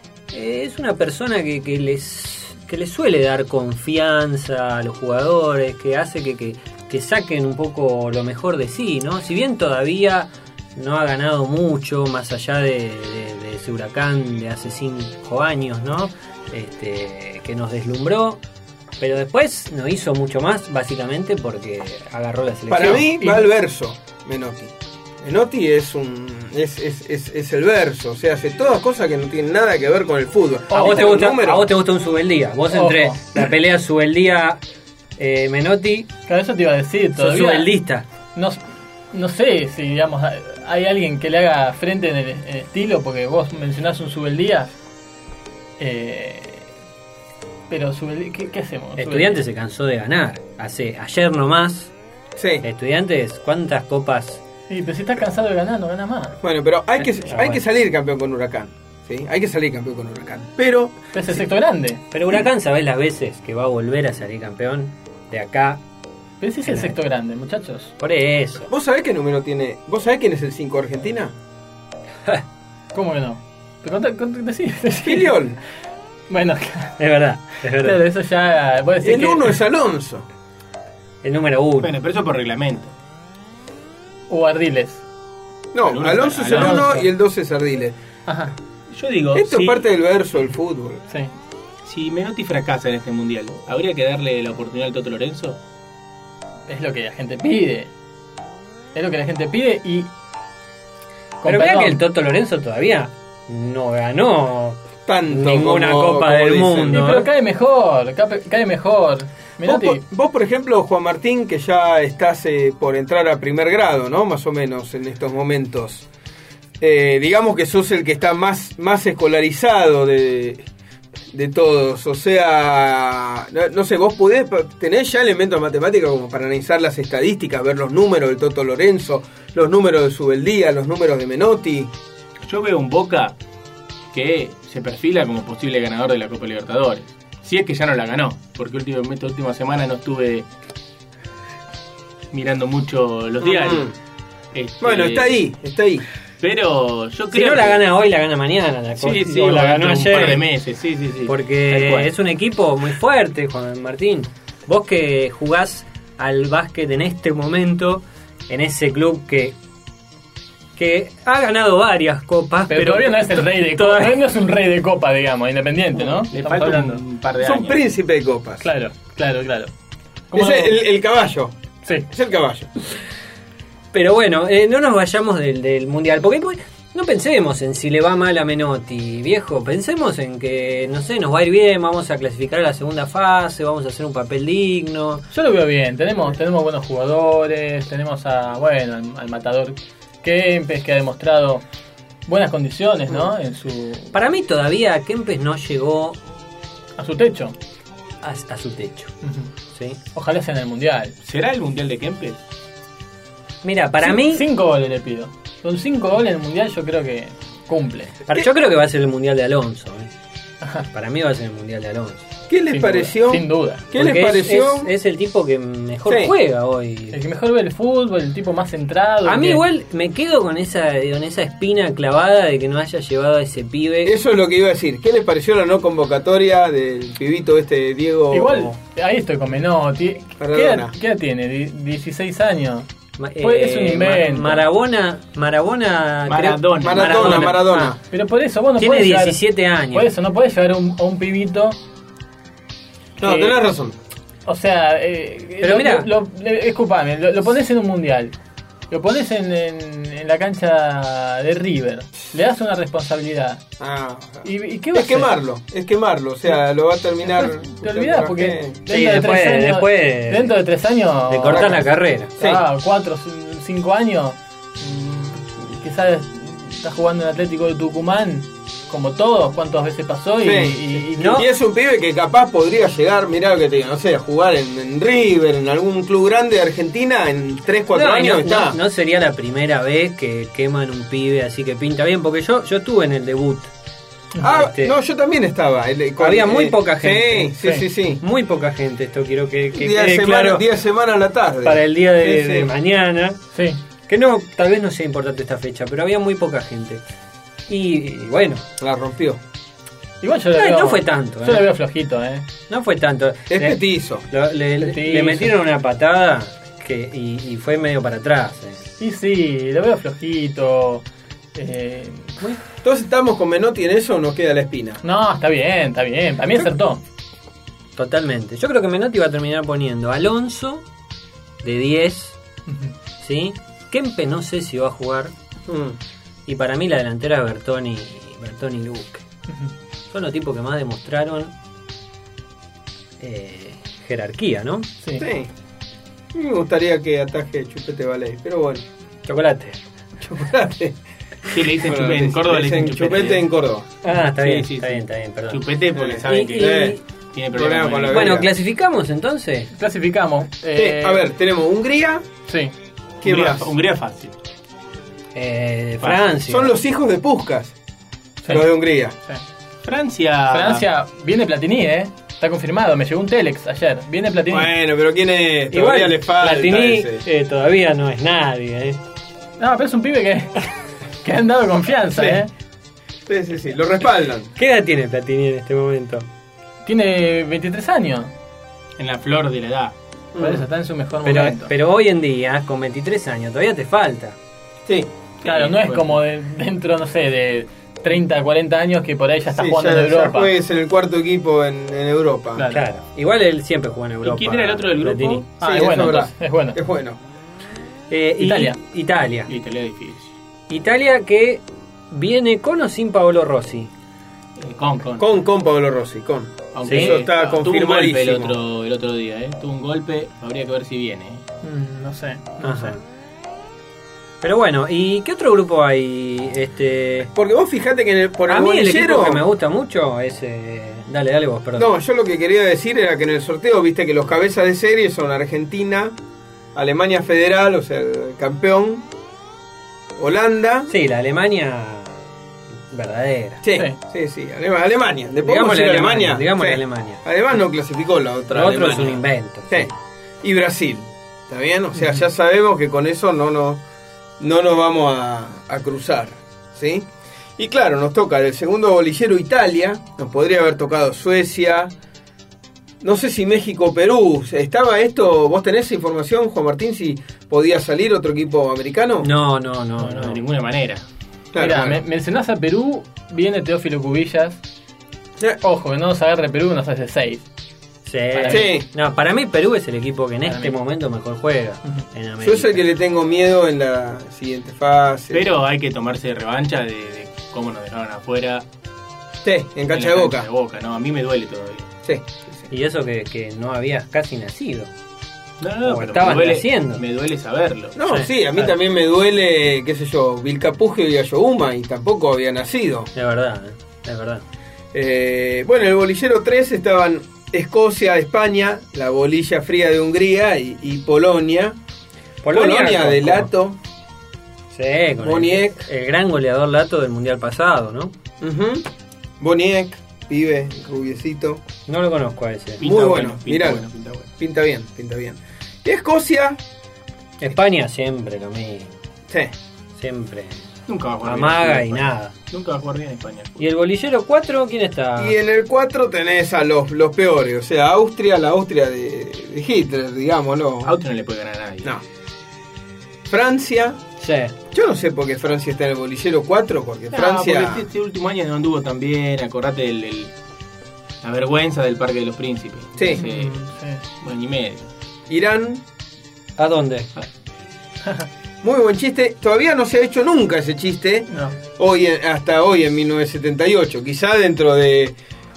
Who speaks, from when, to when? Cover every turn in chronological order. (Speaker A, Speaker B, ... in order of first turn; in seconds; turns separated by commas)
Speaker A: 0.3-18.4, Speaker A: 19.0-23.1, Speaker B: 22.7-31.6, Speaker C: 23.2-23.5, Speaker C: 30.7-31.2, Speaker A: 30.7-34.6, Speaker C: 32.7-33.2, Speaker A: 35.2-36.1, Speaker C: 36.3-37.7, Speaker A: 37.2-38.0, Speaker C: 38.3-38.6, Speaker C: 39.1-44.7, Speaker C: 45.8-46.7, Speaker C: 47.7-49.4, Speaker A: 49.0-51.9, Speaker B: 52.4-52.6, Speaker A: 52.6-54.4, Speaker C: 54.7-56.4, Speaker B: 56.4-61.1, Speaker A: 57.2-57.6, Speaker C: 61.1-62.0, Speaker A: 62.1-65.8, Speaker C: 66.4-67.9, Speaker A: 66.7-67.0, Speaker A: 68.0-68.7, Speaker B: 68.7-71.3, Speaker C: 72.9-75.3, Speaker B: 75.0-75.6, Speaker C: 76.3-77.0, Speaker A: 77.0-78.0, Speaker C: 77.6-79.6, Speaker B: 79.0-80.2, Speaker A: 81.2-81.9, Speaker D: 81.8-82.9, Speaker C: 84.3-85.0, Speaker B: 85.7-88.0, Speaker D: 85.8-86.9, Speaker C: 86.5-87.0, Speaker A: 86.7-87.0, Speaker C: 88.3-88.5, Speaker D: 88.9-89.8, Speaker B: 89.3-91.0, Speaker D: 91.8-95.6, Speaker C: 96.7-97.9, Speaker C: 98.9-100.1, Speaker C: 101.4-102.0, Speaker A: 101.4-107.3, Speaker B: 105.1-107.0, Speaker C: 106.9-110.0, Speaker B: 109.6-116.0, Speaker B: 116.8-120.7, Speaker B: 121.3-131.9, Speaker D: 132.4-133.3, Speaker D: 134.1-140.5, Speaker D: 142.3-143.9, Speaker B: 143.4-143.9, Speaker D: 144.5-145.3, Speaker B: 144.8-146.0, Speaker D: 146.4-147.8, Speaker A: 147.3-150.4, Speaker D: 149.0-152.1, Speaker A: 151.2-159.6, Speaker A: 160.8-164.2, Speaker C: 162.7-167.0, Speaker D: 166.3-167.8, Speaker B: 167.4-168.7, Speaker C: 168.6-169.7, Speaker C: 170.3-170.8, Speaker B: 170.3-171.5, Speaker C: 171.8-172.1, Speaker B: 172.1-172.7, Speaker A: 173.9-185.2, Speaker C: 185.3-191.6, Speaker C: 192.3-194.1, Speaker A: 194.1-196.2, Speaker C: 197.0-197.6, Speaker A: 198.2-199.1, Speaker C: 199.2-199.5, Speaker A: 199.7-200.0, Speaker C: 200.1-201.1, Speaker D: 201.2-202.4, Speaker A: 203.6-204.4, Speaker C: 204.0-208.2, Speaker A: 208.3-210.1, Speaker C: 210.6-210.9, Speaker A: 210.9-212.2, Speaker B: 212.5-214.9, Speaker C: 212.7-213.9, Speaker A: 213.9-217.2, Speaker B: 216.1-216.3, Speaker C: 217.1-219.6, Speaker A: 219.2-224.2, Speaker B: 224.0-228.7, Speaker C: 228.3-232.9, Speaker B: 230.4-230.9, Speaker A: 233.2-238.0, Speaker C: 233.4-234.6, Speaker D: 236.3-237.6, Speaker B: 236.8-238.0, Speaker C: 238.1-241.8, Speaker A: 238.8-240.1, Speaker B: 243.2-244.0, Speaker C: 243.2-243.6, Speaker C: 244.4-248.3, Speaker A: 245.6-246.1, Speaker C: 248.9-253.6, Speaker B: 253.8-258.7, Speaker C: 254.4-255.3, Speaker C: 257.2-261.8, Speaker A: 258.9-260.6, Speaker A: 261.3-262.3, Speaker B: 261.5-261.8, Speaker C: 262.4-271.5, Speaker B: 262.4-262.6, Speaker B: 270.4-278.8, Speaker A: 271.1-271.5, Speaker A: 277.9-283.7, Speaker A: 284.4-284.9, Speaker B: 284.4-288.2, Speaker A: 286.2-287.5, Speaker C: 287.6-287.9, Speaker A: 288.2-290.6, Speaker B: 289.7-292.7, Speaker A: 291.6-293.4, Speaker C: 293.5-293.8, Speaker A: 294.1-297.0, Speaker A: 297.7-298.6, Speaker B: 298.8-299.4, Speaker C: 300.2-302.5, Speaker A: 300.5-301.7, Speaker A: 302.7-308.9, Speaker B: 303.5-304.2, Speaker C: 304.8-305.5, Speaker C: 309.0-312.4, Speaker B: 312.8-315.0, Speaker C: 315.0-317.0, Speaker A: 317.9-320.8, Speaker A: 321.6-322.4, Speaker C: 322.7-322.9, Speaker A: 323.2-325.3, Speaker B: 325.7-326.0, Speaker A: 326.4-329.2, Speaker C: 329.5-329.7, Speaker A: 330.1-331.5, Speaker A: 333.2-334.9, Speaker C: 335.0-335.3, Speaker B: 335.2-335.5, Speaker B: 336.3-338.8, Speaker A: 339.2-339.8, Speaker B: 340.2-340.9, Speaker D: 341.5-343.5, Speaker B: 341.8-343.9, Speaker A: 344.0-345.6, Speaker D: 344.3-348.4, Speaker B: 345.9-346.9, Speaker A: 346.2-347.0, Speaker B: 347.5-348.5, Speaker A: 348.1-349.7, Speaker C: 349.7-351.3, Speaker B: 350.8-352.2, Speaker C: 352.5-352.7, Speaker B: 353.2-353.7, Speaker D: 353.2-354.3, Speaker A: 355.3-356.7, Speaker B: 356.4-357.7, Speaker B: 358.4-359.1, Speaker D: 359.8-360.8, Speaker C: 360.5-364.7, Speaker B: 364.5-367.2, Speaker A: 365.7-369.0, Speaker C: 369.6-370.7, Speaker C: 371.2-372.5, Speaker B: 372.1-372.4, Speaker B: 373.2-374.5, Speaker A: 374.6-376.3, Speaker C: 376.8-378.3, Speaker D: 379.0-379.9, Speaker B: 380.3-380.6, Speaker C: 380.4-381.7, Speaker A: 381.2-384.4, Speaker D: 385.4-386.2, Speaker C: 385.4-390.5, Speaker B: 389.5-392.6, Speaker C: 392.6-392.8, Speaker A: 392.7-395.4, Speaker D: 394.2-395.4, Speaker B: 395.6-397.2, Speaker C: 395.6-396.8, Speaker A: 398.1-399.5, Speaker C: 398.4-398.8, Speaker D: 399.5-400.4, Speaker A: 400.7-403.9, Speaker D: 404.6-405.3, Speaker B: 405.2-408.5, Speaker D: 406.7-411.4, Speaker A: 406.8-407.2, Speaker C: 411.6-413.0, Speaker A: 412.6-413.0, Speaker A: 414.4-417.3, Speaker B: 417.3-419.4, Speaker A: 418.5-421.9, Speaker B: 421.8-426.1, Speaker B: 426.7-429.1, Speaker B: 430.2-430.9, Speaker A: 430.9-432.2, Speaker A: 432.9-433.6, Speaker B: 433.6-443.8, Speaker A: 435.4-437.2, Speaker A: 438.5-439.9, Speaker B: 444.4-451.9, Speaker B: 453.0-459.3, Speaker A: 459.2-460.4, Speaker D: 460.0-461.0, Speaker B: 461.5-462.0, Speaker C: 461.6-464.6, Speaker C: 465.6-467.4, Speaker A: 468.0-472.8, Speaker C: 468.3-468.7, Speaker B: 468.5-468.9, Speaker C: 470.4-470.7, Speaker B: 472.4-475.4, Speaker D: 475.3-478.6, Speaker B: 479.4-480.4, Speaker D: 479.9-481.9, Speaker A: 482.7-484.9, Speaker D: 485.6-487.9, Speaker A: 485.8-487.0, Speaker B: 487.9-493.1, Speaker A: 488.0-488.3, Speaker A: 493.1-494.4, Speaker B: 494.9-501.8, Speaker A: 502.4-503.5, Speaker B: 502.5-503.8, Speaker A: 504.7-508.1, Speaker B: 505.2-505.8, Speaker B: 508.4-508.9, Speaker B: 509.4-511.6, Speaker A: 511.9-512.8, Speaker D: 512.8-514.3, Speaker B: 512.8-513.8, Speaker B: 514.4-516.6, Speaker A: 517.4-519.0, Speaker B: 519.3-519.5, Speaker A: 519.9-520.6, Speaker D: 520.9-523.6, Speaker A: 521.2-522.3, Speaker A: 523.6-525.4, Speaker B: 525.2-530.9, Speaker D: 530.8-531.9, Speaker B: 533.3-534.0, Speaker A: 534.2-534.5, Speaker B: 534.7-537.8, Speaker D: 537.1-540.3, Speaker D: 541.2-543.6, Speaker C: 543.1-544.0, Speaker D: 544.2-544.9, Speaker B: 545.3-545.8, Speaker A: 546.6-547.1, Speaker B: 548.6-555.2, Speaker C: 551.3-551.6